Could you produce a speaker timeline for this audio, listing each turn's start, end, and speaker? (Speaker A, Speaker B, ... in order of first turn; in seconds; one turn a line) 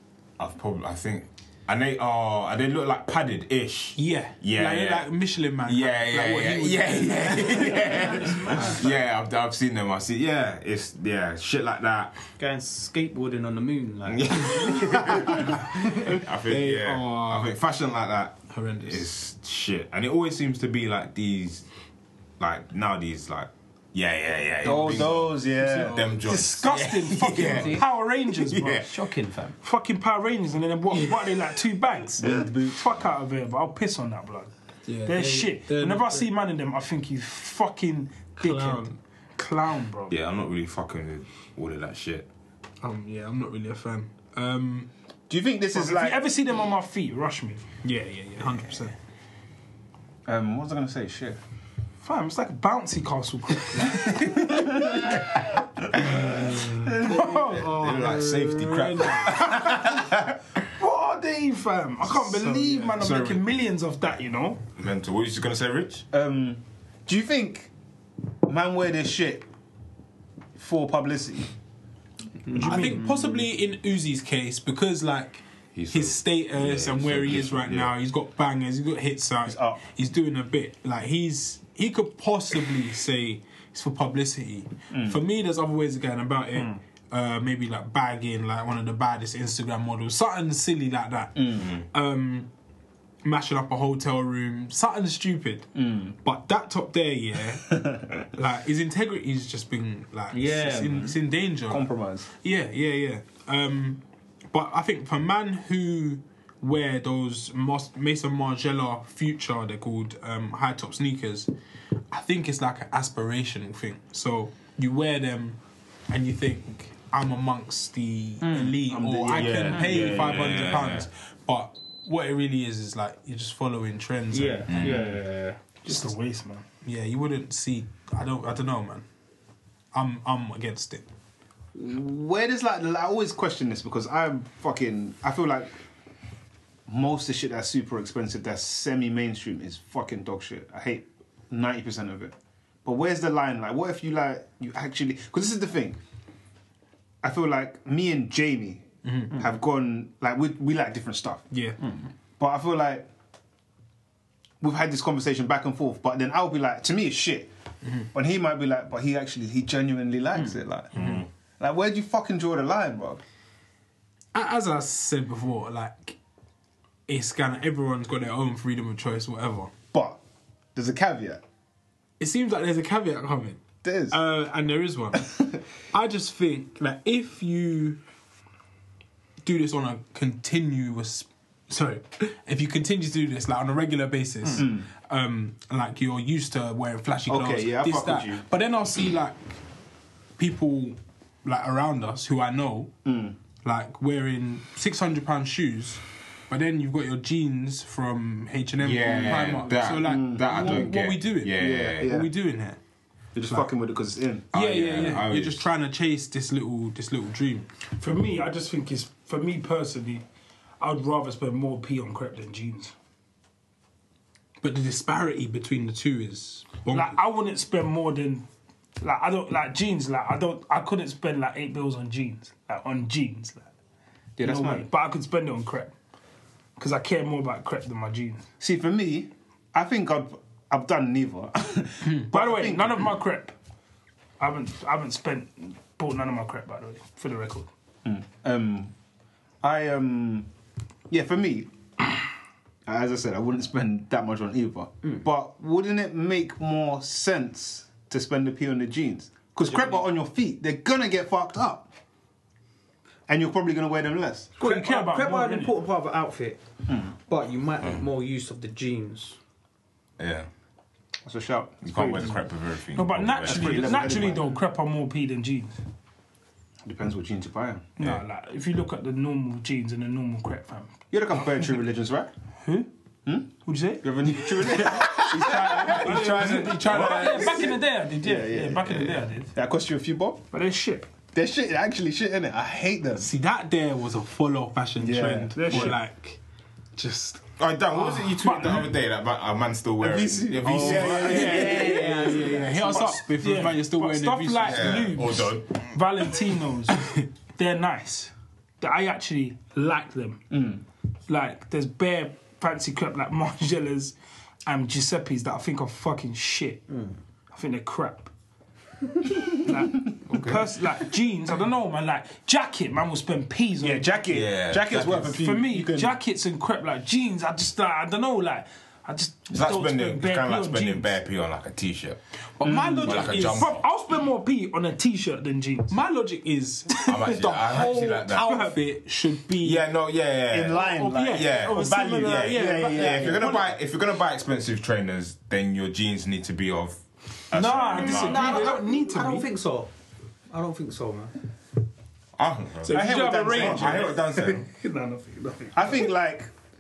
Speaker A: 0.4-12.2
Speaker B: 4.0-8.9
Speaker C: 7.5-8.9
Speaker C: 12.4-14.9
Speaker A: 14.1-21.7
Speaker B: 15.2-17.6
Speaker B: 18.5-19.1
Speaker A: 22.4-28.9
Speaker D: 24.6-26.2
Speaker B: 24.6-26.5
Speaker E: 26.3-28.8
Speaker C: 26.7-27.9
Speaker B: 27.4-27.7
Speaker C: 28.7-29.6
Speaker E: 29.6-34.5
Speaker D: 32.2-32.9
Speaker B: 34.9-36.3
Speaker E: 35.0-40.1
Speaker B: 38.4-39.0
Speaker A: 40.1-42.3
Speaker B: 42.8-44.9
Speaker D: 45.3-46.2
Speaker E: 45.7-47.7
Speaker B: 47.8-49.0
Speaker D: 50.3-51.4
Speaker E: 52.0-54.8
Speaker D: 54.5-55.2
Speaker A: 56.0-56.6
Speaker D: 56.0-57.4
Speaker B: 56.3-59.6
Speaker E: 57.1-57.7
Speaker A: 57.5-60.4
Speaker E: 60.8-64.6
Speaker B: 62.1-63.0
Speaker A: 63.0-63.5
Speaker A: 64.8-66.0
Speaker D: 66.1-67.7
Speaker D: 68.5-69.5
Speaker D: 70.6-71.5
Speaker C: 72.5-73.4
Speaker B: 72.5-92.5
Speaker A: 75.7-78.0
Speaker D: 79.5-79.8
Speaker D: 84.9-85.2
Speaker D: 91.4-91.7
Speaker B: 93.2-95.7
Speaker D: 95.8-96.2
Speaker B: 96.2-111.5
Speaker C: 100.3-101.1
Speaker D: 101.7-102.3
Speaker B: 112.1-125.0
Speaker D: 118.7-120.5
Speaker A: 119.3-121.1
Speaker E: 124.7-126.7
Speaker A: 124.7-125.2
Speaker B: 126.8-129.1
Speaker B: 129.9-131.1
Speaker D: 131.7-135.7
Speaker D: 136.9-146.0
Speaker D: 147.2-151.4
Speaker B: 149.1-149.4
Speaker B: 151.5-151.8
Speaker D: 152.4-153.1
Speaker D: 154.6-157.5
Speaker D: 158.1-161.1
Speaker A: 160.9-161.3
Speaker B: 161.0-161.2
Speaker D: 161.6-163.2
Speaker B: 164.3-166.2
Speaker B: 167.1-169.7
Speaker D: 169.9-170.2
Speaker D: 170.8-171.4
Speaker B: 172.2-173.6
Speaker D: 173.8-174.2
Speaker B: 174.1-178.0
Speaker B: 179.4-189.6
Speaker D: 184.6-184.9
Speaker D: 187.3-188.4
Speaker B: 190.4-192.9
Speaker D: 193.1-193.4
Speaker B: 193.6-202.8
Speaker A: 198.8-202.2
Speaker C: 199.2-199.8
Speaker D: 200.0-200.9
Speaker D: 201.5-202.3
Speaker D: 203.3-204.5
Speaker A: 204.5-205.7
Speaker B: 204.5-207.7
Speaker E: 208.0-210.2
Speaker E: 210.8-212.9
Speaker B: 214.6-217.2
Speaker E: 216.9-218.5
Speaker E: 219.0-223.7
Speaker C: 224.4-224.9
Speaker E: 224.4-225.9
Speaker E: 226.8-228.4
Speaker D: 228.6-233.0
Speaker E: 232.3-233.6
Speaker E: 234.4-237.7
Speaker D: 238.0-238.9
Speaker D: 239.6-240.5
Speaker D: 241.1-241.7
Speaker D: 242.8-251.9
Speaker C: 249.7-250.0
Speaker D: 253.3-254.5
Speaker E: 254.6-255.7
Speaker C: 254.6-256.6
Speaker D: 256.9-257.1
Speaker C: 257.2-259.4
Speaker A: 260.2-260.5
Speaker D: 261.2-262.4
Speaker A: 261.8-264.3
Speaker E: 262.9-265.8
Speaker D: 263.4-264.6
Speaker D: 266.8-267.9
Speaker E: 268.0-270.9
Speaker D: 271.1-272.3
Speaker E: 272.6-272.9
Speaker D: 273.2-280.4
Speaker E: 273.6-274.1
Speaker B: 274.8-277.7
Speaker E: 275.2-279.5
Speaker E: 280.5-281.1
Speaker D: 281.3-283.3
Speaker B: 283.2-286.4
Speaker D: 285.0-286.0
Speaker E: 285.6-286.0
Speaker B: 287.0-287.5
Speaker A: 287.6-291.9
Speaker E: 287.9-289.0
Speaker D: 290.0-292.5
Speaker B: 290.6-294.9
Speaker C: 291.0-293.2
Speaker E: 293.4-300.5
Speaker A: 294.6-295.9
Speaker D: 300.5-300.8
Speaker E: 301.3-304.1
Speaker E: 304.7-306.9
Speaker C: 306.9-307.2
Speaker E: 307.5-308.3
Speaker E: 309.5-314.3
Speaker A: 310.3-310.6
Speaker D: 313.8-316.2
Speaker A: 314.3-315.4
Speaker E: 315.3-321.2
Speaker A: 319.5-322.2
Speaker B: 322.6-323.7
Speaker D: 322.6-323.4
Speaker A: 323.0-323.8
Speaker E: 323.6-325.9
Speaker B: 325.9-329.9
Speaker A: 327.0-328.6
Speaker E: 328.3-328.8
Speaker A: 329.6-338.7
Speaker D: 330.5-333.5
Speaker B: 330.8-333.7
Speaker E: 337.5-339.5
Speaker C: 337.9-339.9
Speaker C: 340.5-341.3
Speaker A: 342.4-344.7
Speaker E: 342.8-346.1
Speaker D: 342.9-344.1
Speaker D: 345.7-346.5